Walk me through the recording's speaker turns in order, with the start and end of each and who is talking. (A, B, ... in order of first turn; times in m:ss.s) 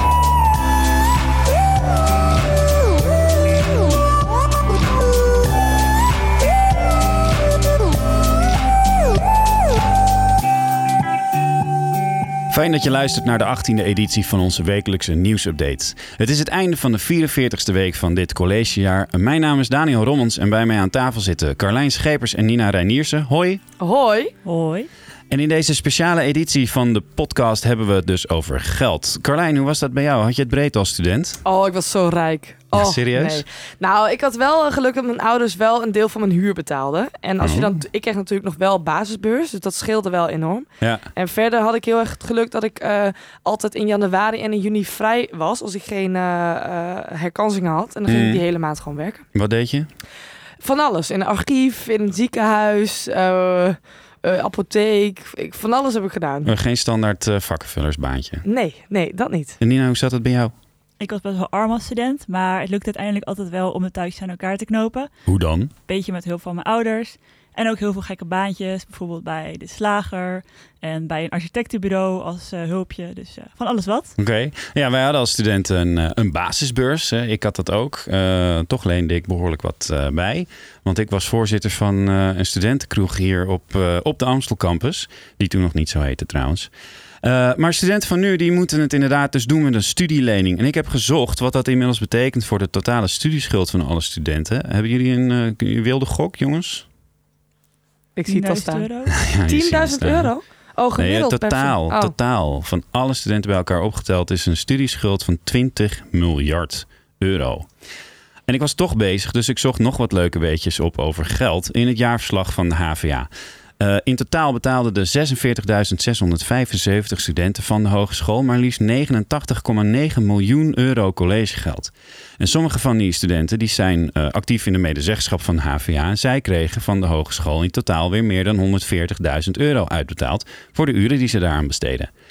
0:12.5-0:23.6 A
0:23.8-0:24.3 B
0:24.4-0:24.9 C
0:25.3-0:31.4 A
0:31.4-0:49.2 B
0:32.7-0:33.4 A
0:37.4-0:37.8 A
0:40.8-0:41.0 A
0:48.1-0:48.4 A
0:49.3-0:49.9 A
0:50.6-0:56.5 B
0:56.4-0:58.4 A
0:58.4-0:59.6 B
0:59.6-1:00.5 A
1:01.0-1:05.1 C
1:05.3-1:05.7 A
1:05.8-1:14.1 C
1:14.2-1:26.7 A
1:27.2-1:36.8 A
1:38.2-1:38.9 B
1:38.3-1:39.1 C
1:39.2-1:40.3 A
1:39.5-1:42.1 B
1:40.9-1:47.7 A
1:48.5-2:12.1 A